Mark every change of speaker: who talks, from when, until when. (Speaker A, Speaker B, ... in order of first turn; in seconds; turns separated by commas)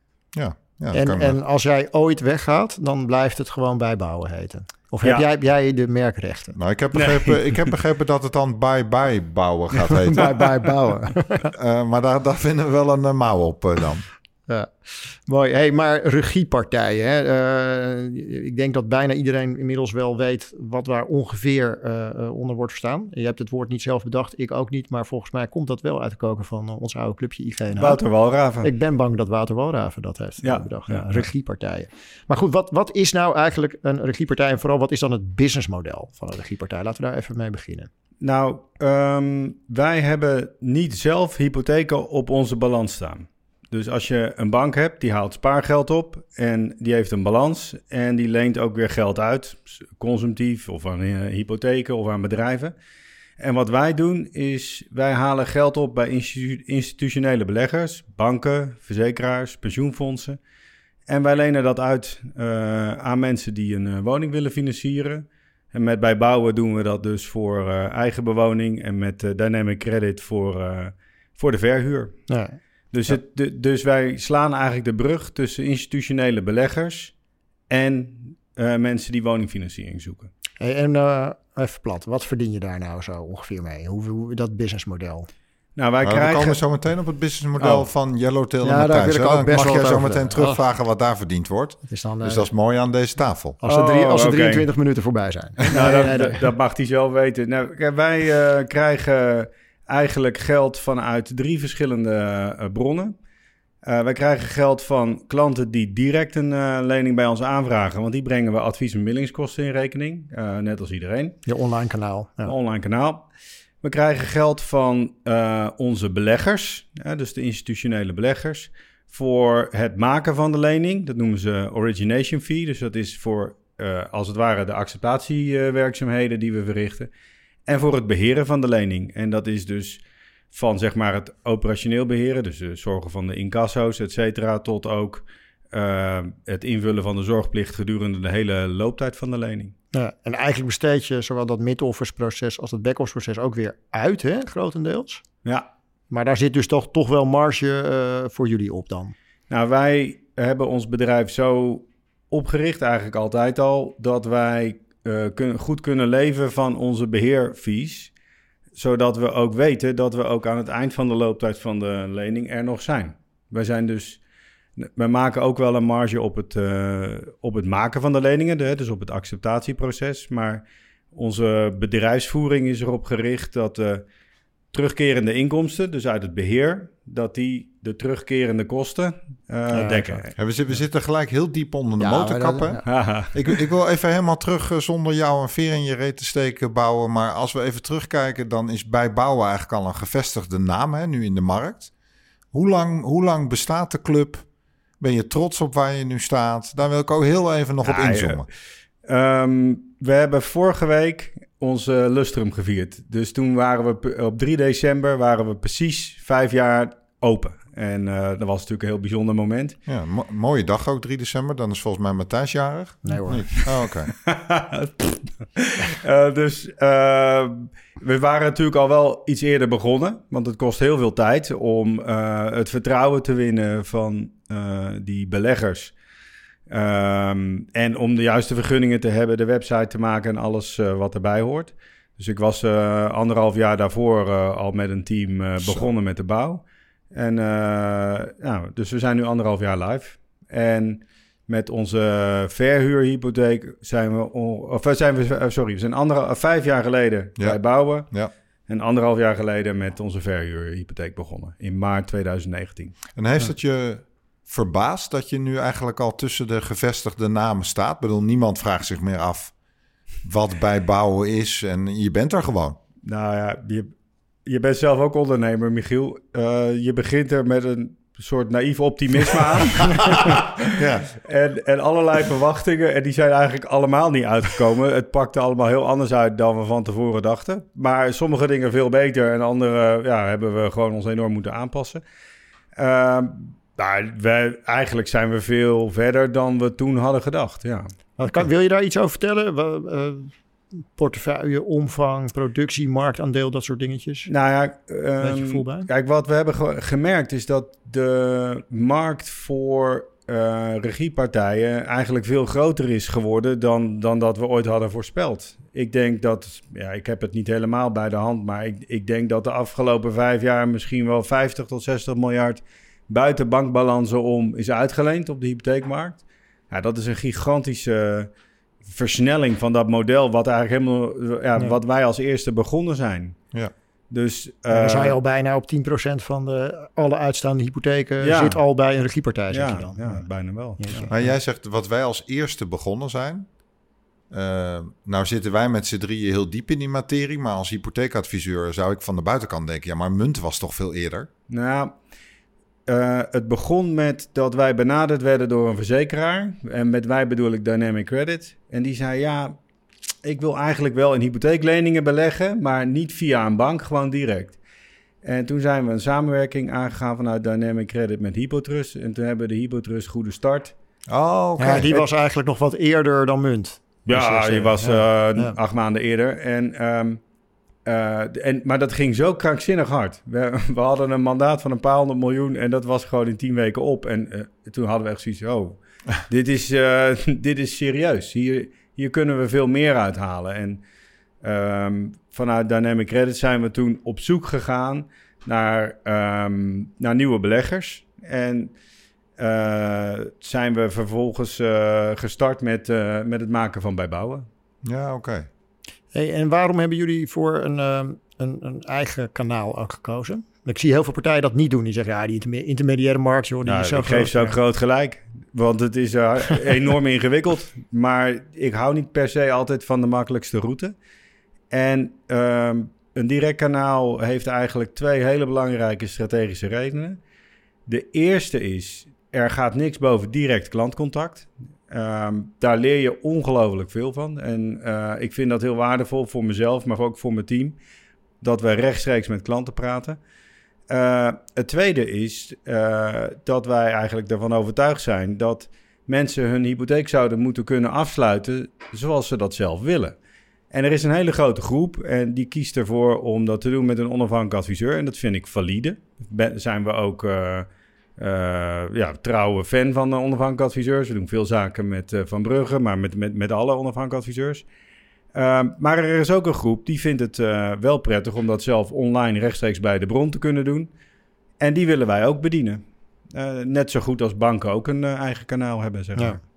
Speaker A: 0.3-1.4, Speaker B: 0.9-6.6, Speaker A: 6.5-10.5, Speaker C: 6.9-7.5, Speaker B: 9.8-11.5, Speaker A: 11.5-14.0, Speaker B: 14.5-28.0, Speaker C: 27.8-28.7, Speaker B: 28.6-37.9, Speaker C: 30.4-31.3, Speaker C: 38.2-52.7, Speaker C: 53.4-60.4, Speaker C: 61.1-72.2, Speaker B: 72.3-72.6, Speaker C: 72.9-77.1, Speaker C: 77.7-80.3, Speaker B: 80.6-85.3, Speaker C: 85.8-86.6, Speaker A: 86.0-93.6, Speaker C: 87.6-87.9, Speaker B: 88.6-90.6, Speaker B: 91.9-92.5, Speaker B: 93.6-96.4, Speaker C: 93.6-94.7, Speaker C: 95.7-103.2, Speaker C: 103.8-111.4, Speaker B: 111.5-112.5, Speaker C: 112.4-113.2, Speaker C: 113.8-127.1, Speaker C: 127.7-130.0, Speaker C: 130.5-139.7, Speaker B: 139.9-145.2, Speaker B: 146.1-149.1, Speaker C: 149.5-158.1, Speaker C: 158.7-164.2, Speaker C: 164.8-174.0, Speaker C: 174.7-180.3, Speaker B: 179.7-180.2, Speaker A: 180.3-182.8, Speaker B: 182.0-182.8, Speaker C: 182.8-183.4, Speaker A: 183.3-191.9, Speaker A: 192.5-194.4, Speaker A: 195.0-198.5, Speaker C: 197.8-198.4, Speaker C: 199.1-209.8, Speaker A: 209.9-214.1, Speaker B: 213.0-213.7, Speaker C: 214.2-225.9, Speaker C: 226.7-248.1, Speaker A: 235.6-235.9, Speaker C: 248.7-253.0, Speaker A: 253.1-259.5, Speaker A: 260.2-262.8, Speaker C: 263.0-263.9, Speaker C: 264.4-282.0, Speaker A: 270.1-271.1, Speaker C: 282.7-287.9, Speaker B: 288.2-290.3, Speaker B: 290.9-294.3, Speaker C: 294.3-318.3, Speaker B: 295.2-295.9, Speaker C: 318.9-323.4, Speaker C: 324.1-325.1, Speaker B: 324.7-330.2, Speaker C: 328.2-328.6, Speaker C: 329.5-330.8, Speaker B: 330.8-331.3, Speaker A: 331.1-333.5, Speaker A: 334.3-341.3, Speaker C: 341.5-341.9, Speaker C: 342.9-349.6, Speaker C: 350.2-354.6, Speaker C: 355.2-360.7, Speaker A: 361.1-361.9, Speaker B: 361.6-365.5, Speaker C: 364.1-367.2, Speaker C: 367.8-380.8, Speaker C: 381.4-388.7, Speaker C: 389.4-394.5, Speaker A: 394.8-395.5, Speaker B: 396.1-404.6, Speaker C: 403.6-410.9, Speaker C: 411.7-417.2, Speaker C: 417.9-427.8, Speaker C: 428.4-430.2, Speaker C: 430.9-440.1, Speaker C: 440.7-454.6, Speaker C: 455.3-460.9, Speaker C: 461.6-466.4